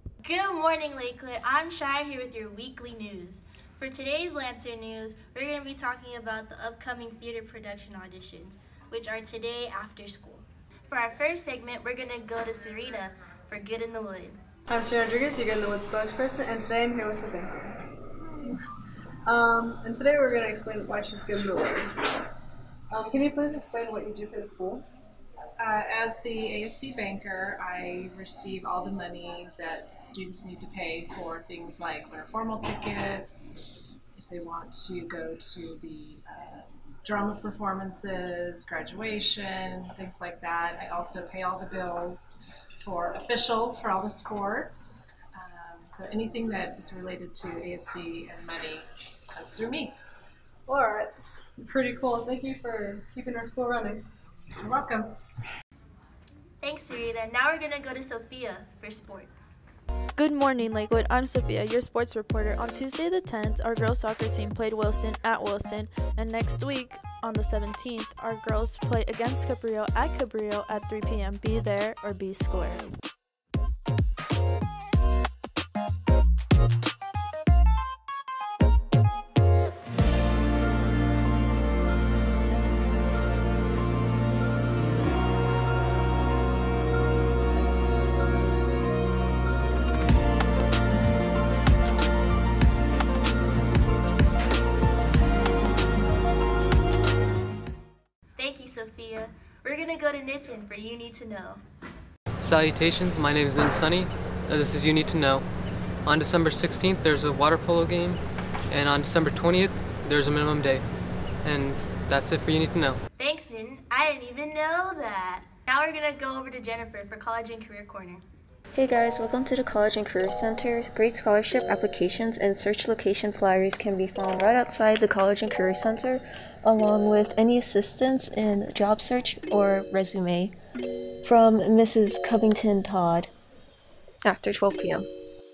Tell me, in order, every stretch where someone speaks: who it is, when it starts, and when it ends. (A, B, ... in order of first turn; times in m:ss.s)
0:00.2-0:14.4 A
0:14.7-0:18.6 B
0:19.3-0:22.3 B
0:22.9-0:24.8 B
0:25.6-0:33.5 C
0:34.2-0:42.3 C
0:42.8-0:50.0 C
0:50.7-0:54.1 B
0:54.6-0:55.2 C
0:56.6-0:59.5 A
1:00.2-1:12.9 D
1:38.4-1:41.6 A
1:42.4-1:45.4 E
1:46.0-1:50.8 E
1:51.4-1:53.0 E
1:53.2-1:58.2 A
1:58.7-2:10.5 F
2:11.2-2:13.3 F
2:14.2-2:15.1 F